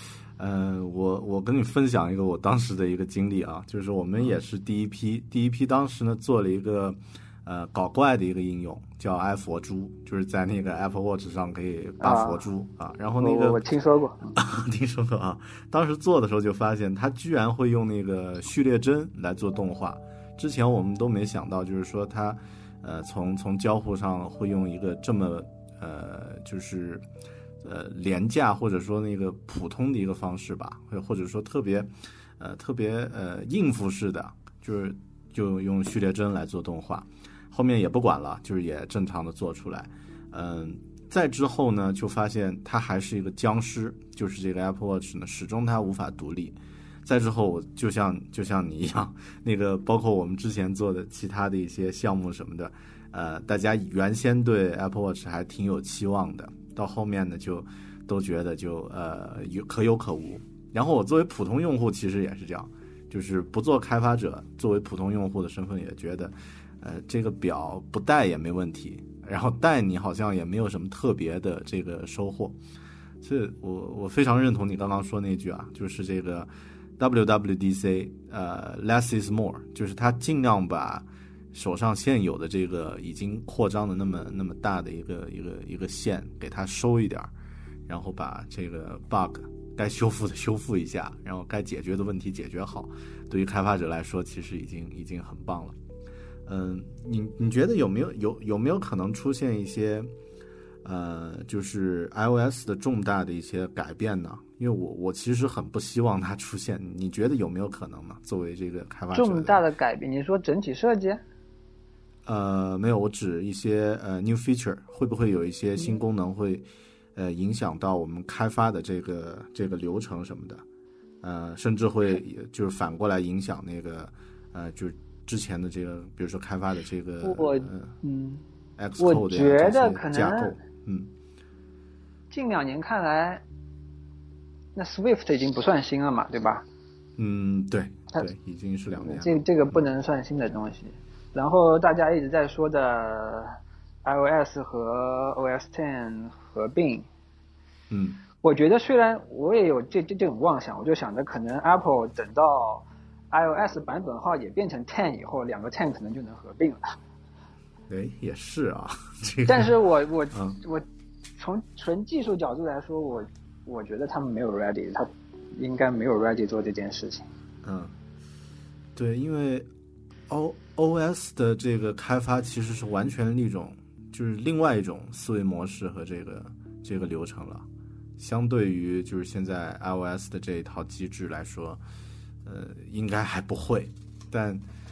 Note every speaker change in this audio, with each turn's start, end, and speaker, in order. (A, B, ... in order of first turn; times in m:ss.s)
0:00.4-0:13.6 A
0:12.0-0:12.4 B
0:13.2-0:14.4 B
0:14.3-0:27.0 A
0:27.6-1:12.6 A
1:13.2-1:27.3 A
1:27.9-1:35.8 A
1:36.4-1:40.1 A
1:40.8-1:49.6 A
1:49.1-1:51.2 B
1:52.2-2:00.6 A
2:01.2-2:07.9 A
2:07.2-2:08.4 B
2:08.8-2:11.1 A
2:09.0-2:10.5 B
2:12.3-2:13.4 B
2:14.7-2:16.6 B
2:17.2-2:19.8 A
2:19.0-2:27.0 B
2:27.9-2:28.2 A
2:28.4-2:37.0 B
2:37.9-2:39.7 A
2:39.5-2:40.8 B
2:40.3-2:40.6 A
2:41.4-2:47.2 B
2:47.6-2:47.9 A
2:48.9-2:49.7 A
2:50.3-2:57.6 A
2:58.2-3:01.8 A
3:02.4-3:04.6 A